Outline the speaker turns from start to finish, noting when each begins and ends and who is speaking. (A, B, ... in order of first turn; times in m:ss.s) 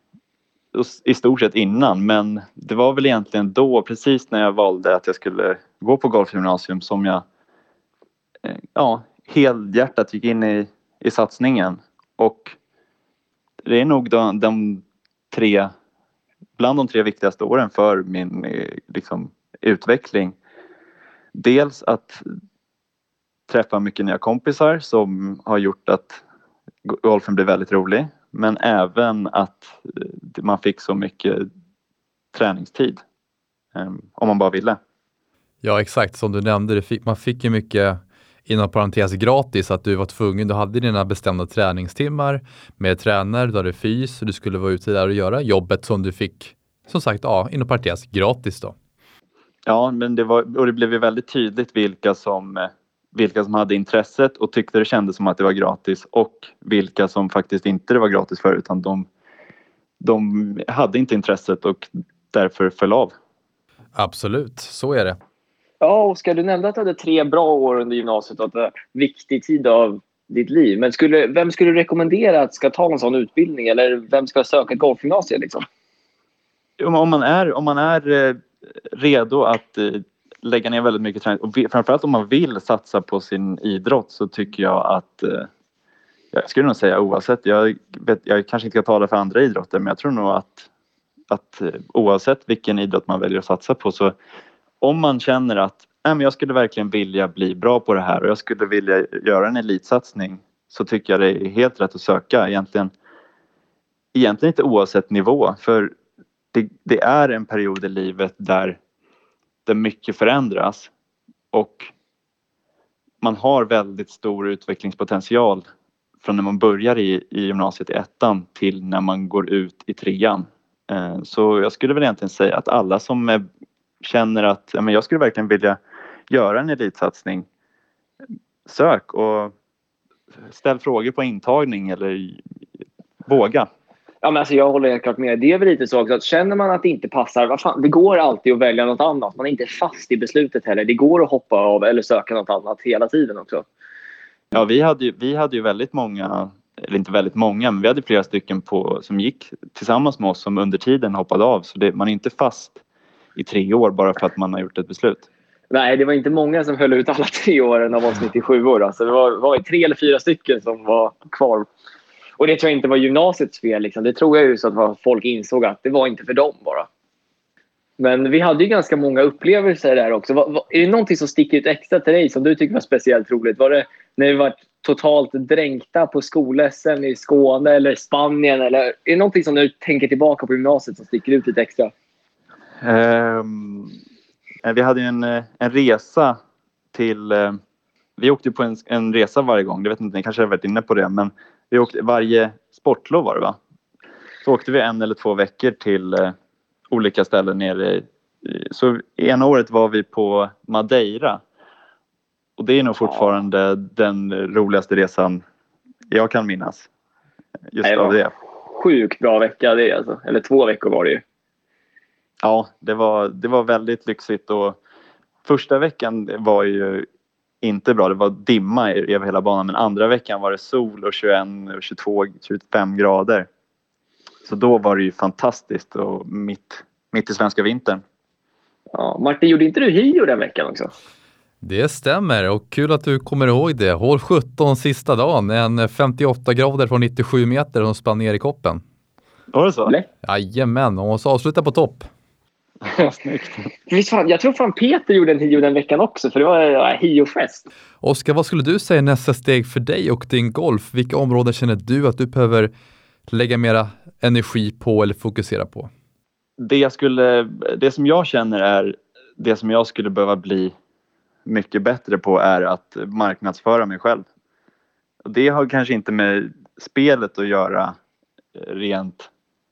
0:00.7-0:07.2 A
0:08.4-0:12.6 A
0:13.6-0:15.7 A
0:16.6-0:20.4 A
0:21.3-0:22.2 A
0:23.5-0:26.2 A
0:26.9-0:31.5 A
0:32.3-0:33.0 A
0:33.7-0:34.8 A
0:35.6-0:48.7 B
0:49.6-0:59.1 A
1:00.0-1:03.1 A
1:04.0-1:05.2 B
1:05.8-1:15.6 C
1:16.8-1:18.4 A
1:18.9-1:25.5 A
1:26.3-1:30.7 A
1:31.3-1:34.1 A
1:34.8-1:42.9 A
1:44.1-1:45.9 A
1:46.5-1:48.8 A
1:49.6-1:50.9 A
1:51.5-1:51.9 A
1:53.2-1:55.6 A
1:56.2-2:03.4 A
2:04.0-2:05.8 A
2:06.3-2:07.4 A
2:08.6-2:09.5 A
2:10.5-2:12.4 A
2:13.2-2:13.7 A
2:14.2-2:23.6 C
2:24.5-2:32.8 A
2:33.4-2:35.2 A
2:35.7-2:41.7 C
2:42.4-2:46.9 C
2:48.0-3:01.9 C
3:02.8-3:03.9 A
3:04.6-3:06.4 A
3:06.9-3:07.6 A
3:08.2-3:13.6 A
3:14.4-3:16.3 A
3:16.9-3:21.4 A
3:22.6-3:25.4 A
3:26.1-3:26.9 A
3:27.7-3:28.3 A
3:27.8-3:28.2 C
3:28.7-3:31.2 C
3:32.4-3:34.8 A
3:35.4-3:37.0 A
3:37.6-3:43.5 A
3:44.4-3:48.0 A
3:48.9-3:50.9 C
3:51.6-3:58.8 B
3:59.5-3:59.9 A
4:00.2-4:02.0 B
4:03.2-4:03.7 A
4:03.9-4:07.7 C
4:08.0-4:12.7 B
4:13.3-4:15.9 B
4:16.6-4:20.7 A
4:21.4-4:24.2 A
4:25.2-4:27.9 A
4:28.6-4:29.3 A